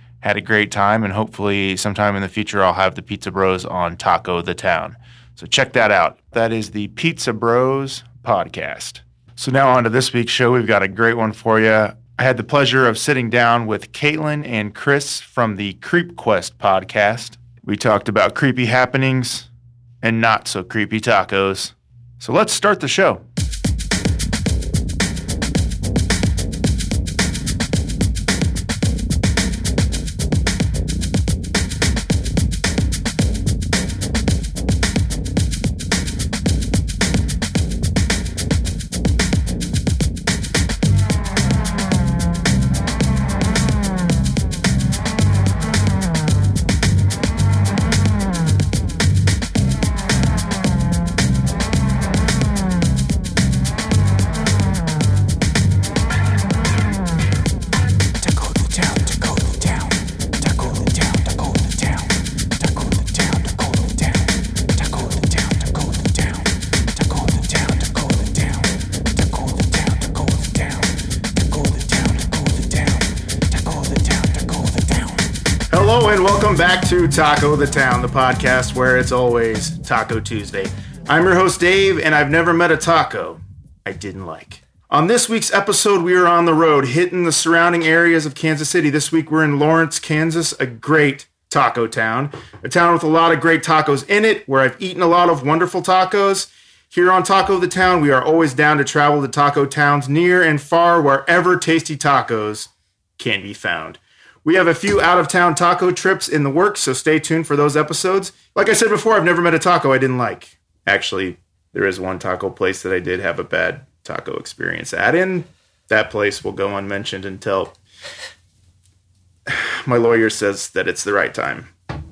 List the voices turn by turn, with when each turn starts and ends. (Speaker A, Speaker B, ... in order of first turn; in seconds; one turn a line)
Speaker A: 0.2-19.5
Speaker A: 20.0-23.2
Speaker A: 75.7-117.7
Speaker A: 119.5-121.7